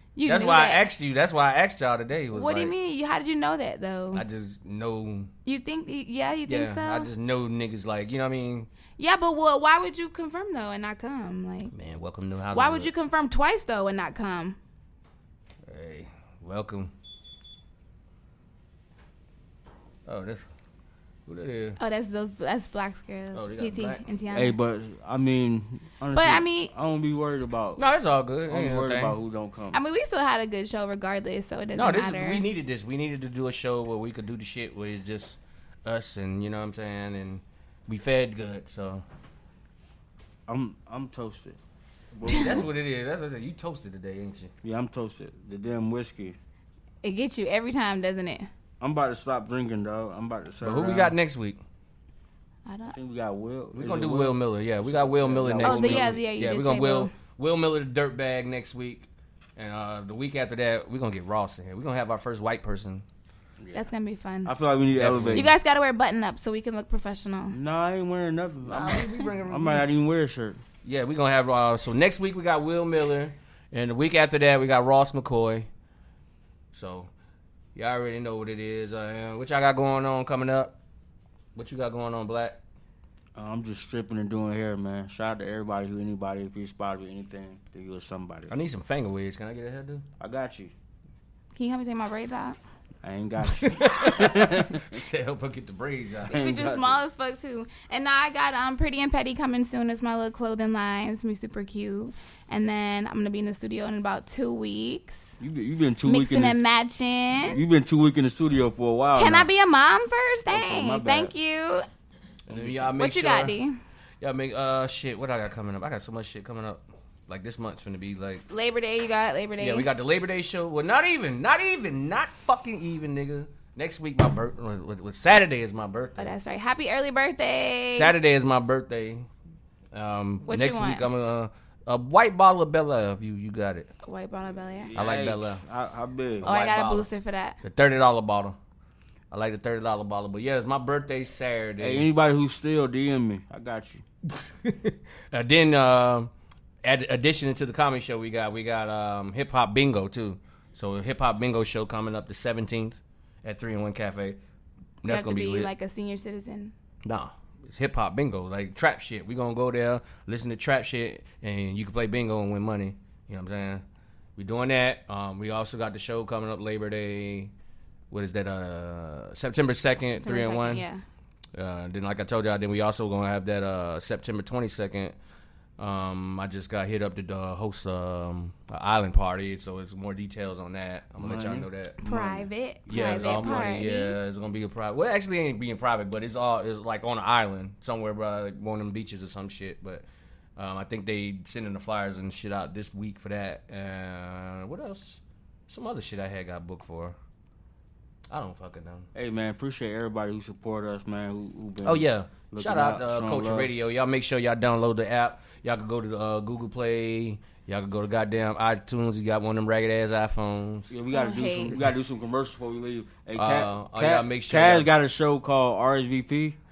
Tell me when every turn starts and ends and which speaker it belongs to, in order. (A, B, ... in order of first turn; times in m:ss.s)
0:00.2-0:00.8 A
0:00.3-0:02.7 B
0:02.3-0:04.2 A
0:04.1-0:05.3 B
0:05.4-0:07.1 A
0:06.5-0:08.7 B
0:09.0-0:11.7 A
0:11.7-0:12.9 B
0:12.5-0:14.6 A
0:15.7-0:16.9 B
0:20.1-0:20.5 B
0:21.3-0:21.8 B
0:21.8-0:24.6 A
0:23.3-0:24.0 B
0:24.3-0:27.8 C
0:26.1-0:26.7 A
0:27.8-0:29.2 B
0:28.5-0:29.8 C
0:29.7-0:32.4 A
0:31.8-0:39.0 B
0:40.5-0:41.6 C
0:42.2-0:42.7 C
0:42.2-0:44.5 B
0:44.6-0:46.4 C
0:47.0-0:48.5 A
0:48.8-0:51.2 C
0:50.6-0:51.6 B
0:52.7-0:53.0 A
0:52.9-0:56.2 C
0:53.8-1:03.0 B
0:55.6-0:57.1 A
1:03.7-1:04.5 A
1:04.4-1:05.5 C
1:04.9-1:05.5 B
1:05.3-1:07.6 A
1:07.5-1:10.6 C
1:08.7-1:09.9 B
1:08.8-1:09.2 A
1:10.8-1:15.7 B
1:16.7-1:17.1 B
1:17.8-1:20.8 B
1:21.6-1:22.6 B
1:23.4-1:28.5 C
1:28.5-1:30.1 B
1:30.2-1:30.7 C
1:31.6-1:32.6 A
1:33.0-1:35.0 C
1:33.4-1:36.4 B
1:36.3-1:37.0 C
1:36.3-1:45.4 A
1:45.4-1:46.6 C
1:46.0-1:47.6 A
1:47.4-1:49.5 C
1:49.2-1:51.9 A
1:50.5-1:51.3 C
1:52.5-1:53.5 B
1:52.5-1:52.9 C
1:53.0-1:53.8 A
1:54.2-1:58.4 B
1:58.4-1:59.9 A
1:59.6-2:06.3 B
2:06.2-2:08.1 A
2:07.9-2:09.3 B
2:09.9-2:13.9 B
2:10.5-2:11.1 A
2:14.0-2:14.9 A
2:14.9-2:16.5 C
2:15.0-2:15.6 B
2:16.4-2:17.1 B
2:16.4-2:17.6 A
2:17.6-2:18.6 B
2:19.3-2:22.0 B
2:21.8-2:24.0 C
2:24.6-2:26.3 B
2:26.8-2:34.4 B
2:35.0-2:35.7 B
2:35.0-2:36.7 A
2:37.0-2:43.8 B
2:44.4-2:47.5 B
2:48.1-2:50.9 B
2:50.2-2:51.0 A
2:51.6-2:55.2 B
2:55.8-3:02.0 B
3:01.2-3:03.7 C
3:02.0-3:04.2 A
3:02.9-3:10.0 B
3:10.6-3:17.2 B
3:18.3-3:19.1 B
3:19.2-3:23.7 C
3:21.8-3:30.9 B
3:30.9-3:36.6 C
3:31.1-3:31.9 A
3:33.4-3:34.9 B